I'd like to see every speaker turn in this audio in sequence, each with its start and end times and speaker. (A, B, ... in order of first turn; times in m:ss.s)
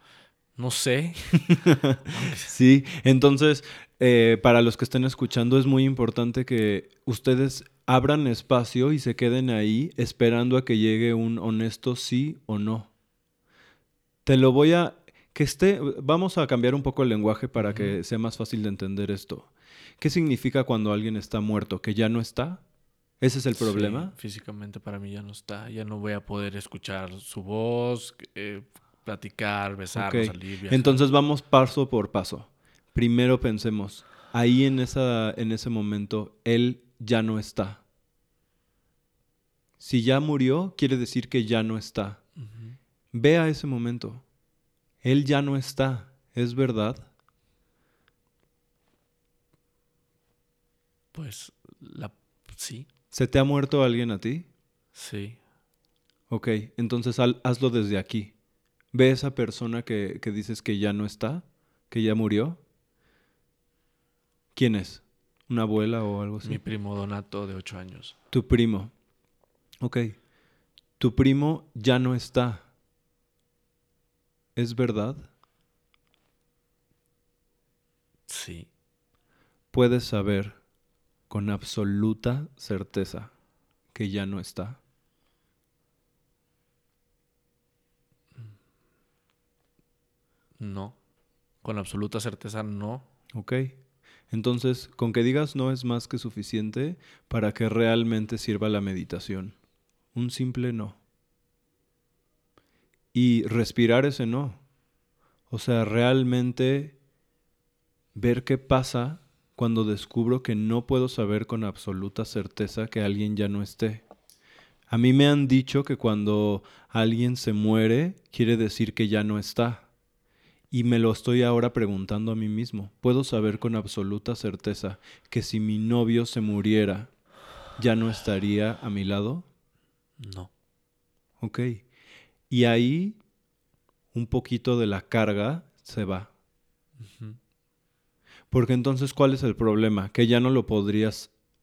0:00.6-0:01.5 A
0:01.5-0:12.9 B
0:02.1-0:02.5 A
0:14.2-0:19.5 B
0:17.6-0:18.0 A
0:20.0-0:22.6 B
0:23.2-0:24.1 B
0:23.6-0:31.0 A
0:29.9-0:37.8 B
0:39.8-0:42.2 B
0:42.4-0:42.8 A
0:43.1-0:44.2 B
0:45.0-0:47.1 B
0:51.1-0:52.9 A
0:53.1-0:54.4 B
0:54.9-0:55.4 A
0:56.3-0:58.3 B
0:58.9-1:02.6 B
1:04.5-1:06.6 B
1:06.4-1:08.1 A
1:08.3-1:08.9 B
1:09.8-1:10.2 B
1:11.0-1:12.6 B
1:14.6-1:15.3 B
1:18.3-1:18.7 A
1:19.7-1:20.6 B
1:21.3-1:23.3 B
1:23.9-1:24.8 B
1:30.6-1:31.0 A
1:31.6-1:33.0 A
1:33.3-1:33.8 B
1:34.3-1:39.6 B
1:40.1-1:41.0 B
1:43.1-1:44.6 B
1:45.5-1:46.9 B
1:48.1-1:54.0 B
1:54.9-1:59.8 B
2:00.7-2:07.1 B
2:07.8-2:09.4 B
2:10.2-2:10.5 A
2:11.4-2:11.8 B
2:12.5-2:13.2 B
2:14.1-2:16.3 B
2:17.0-2:17.4 A
2:18.5-2:21.3 B